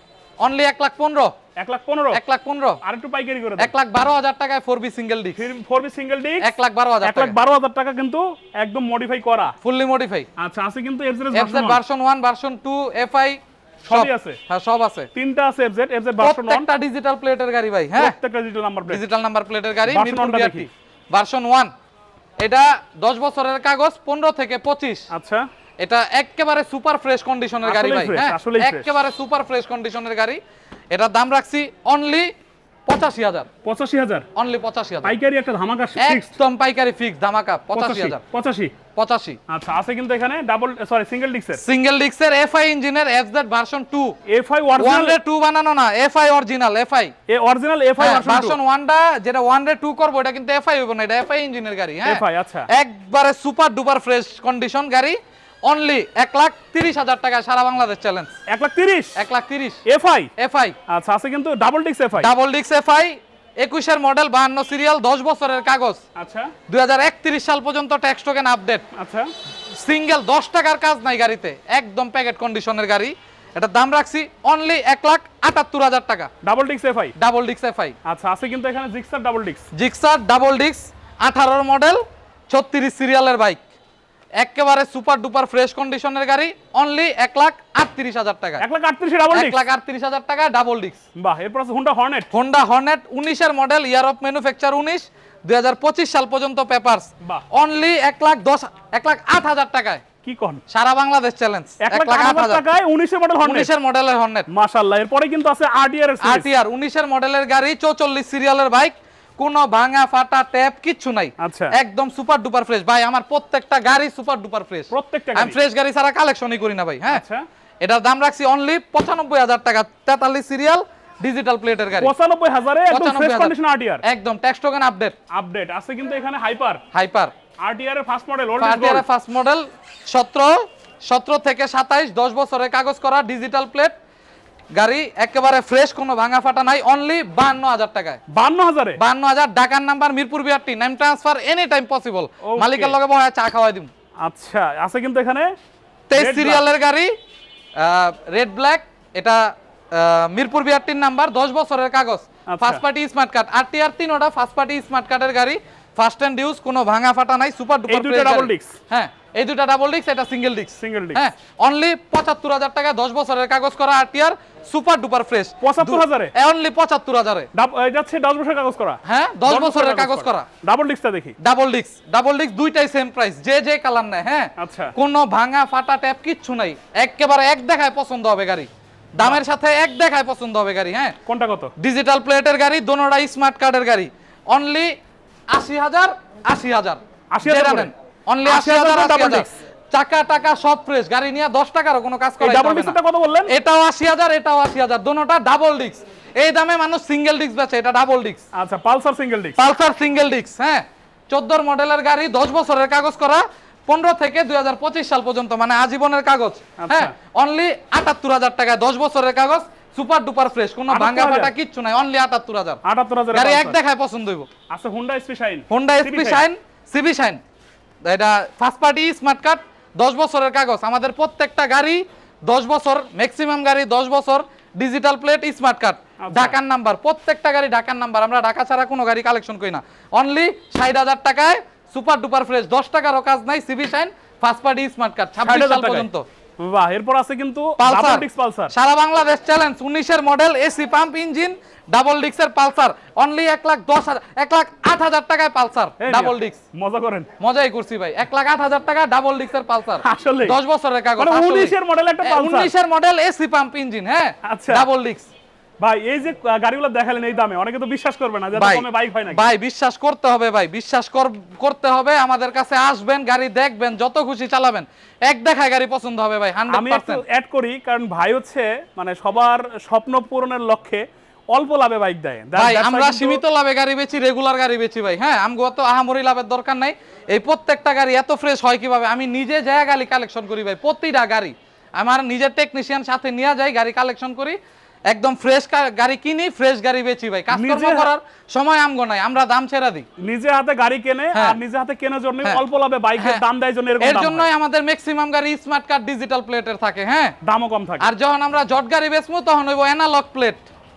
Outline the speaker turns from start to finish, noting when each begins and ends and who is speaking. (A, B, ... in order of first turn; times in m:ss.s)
0:00.4-0:01.3 A
0:01.6-0:02.2 B
0:02.1-0:02.8 A
0:02.8-0:03.7 B
0:03.6-0:05.4 A
0:05.4-0:06.5 B
0:06.4-0:07.3 A
0:07.0-0:09.5 B
0:09.6-0:10.3 A
0:10.4-0:11.8 B
0:11.3-0:15.1 A
0:13.8-0:14.4 B
0:15.1-0:16.7 B
0:16.2-0:18.1 A
0:18.0-0:19.0 B
0:18.9-0:21.7 A
0:19.8-0:20.7 B
0:22.4-0:25.1 A
0:25.1-0:25.4 B
0:25.8-0:30.4 A
0:27.6-0:28.9 B
0:30.9-0:32.3 A
0:32.9-0:33.5 A
0:33.6-0:34.2 B
0:34.3-0:35.2 A
0:35.0-0:36.4 B
0:36.0-0:38.2 A
0:37.7-0:38.7 B
0:38.9-0:39.4 A
0:39.5-0:41.6 B
0:41.6-0:44.1 A
0:44.3-0:45.2 B
0:44.8-0:47.1 A
0:47.3-0:48.6 B
0:48.0-0:58.3 A
0:52.0-0:52.7 B
0:58.5-0:59.2 B
0:59.2-0:59.8 A
0:59.8-1:00.3 B
1:00.4-1:00.8 A
1:00.9-1:02.3 B
1:02.2-1:06.0 A
1:06.2-1:06.5 B
1:06.7-1:08.8 A
1:08.9-1:09.3 B
1:09.7-1:16.3 A
1:16.4-1:17.1 B
1:17.2-1:18.0 A
1:18.0-1:19.6 B
1:19.7-1:23.6 A
1:24.4-1:28.6 A
1:28.6-1:29.6 B
1:29.3-1:31.0 A
1:31.2-1:32.3 B
1:32.3-1:40.0 A
1:40.2-1:40.6 B
1:40.7-1:42.6 A
1:41.8-1:43.7 B
1:43.4-1:44.5 A
1:44.5-1:46.5 B
1:46.2-1:57.2 A
1:51.4-1:51.8 B
1:54.9-1:55.6 B
1:57.1-1:57.4 B
1:57.8-2:02.1 A
2:02.0-2:04.0 B
2:02.9-2:05.2 A
2:05.3-2:06.8 B
2:06.9-2:07.3 A
2:07.6-2:09.0 B
2:08.6-2:13.9 A
2:14.7-2:18.2 A
2:18.3-2:19.0 B
2:19.0-2:23.9 A
2:22.4-2:23.0 B
2:24.2-2:25.5 B
2:26.1-2:27.1 A
2:26.1-2:26.6 B
2:27.8-2:47.5 A
2:32.5-2:32.8 B
2:37.9-2:38.8 B
2:40.8-2:41.2 B
2:45.6-2:46.3 B
2:47.5-2:51.4 B
2:49.0-2:50.5 A
2:51.4-3:01.2 A
2:54.6-2:54.9 B
3:01.2-3:01.7 B
3:01.8-3:04.9 A
3:05.5-3:13.0 A
3:07.3-3:07.9 B
3:08.4-3:09.5 B
3:12.4-3:13.5 B
3:13.5-3:18.4 A
3:18.5-3:19.6 B
3:19.6-3:32.8 A
3:26.8-3:27.1 B
3:30.9-3:31.5 B
3:32.8-3:33.8 B
3:33.3-3:34.5 A
3:34.7-3:36.4 B
3:35.7-3:37.4 A
3:38.0-3:56.2 A
3:46.2-3:46.6 B
3:55.4-3:56.1 B
3:56.6-3:58.7 B
3:57.8-4:06.6 A
4:06.0-4:07.3 B
4:07.4-4:15.3 A
4:10.0-4:10.6 B
4:11.2-4:12.7 B
4:14.4-4:14.9 B
4:15.8-4:19.5 B
4:18.5-4:27.2 A
4:26.7-4:33.4 B
4:32.5-4:50.1 A
4:47.5-4:48.1 B
4:50.2-4:54.5 B
4:54.0-4:57.3 A
4:57.4-4:58.1 B
4:58.0-5:00.6 A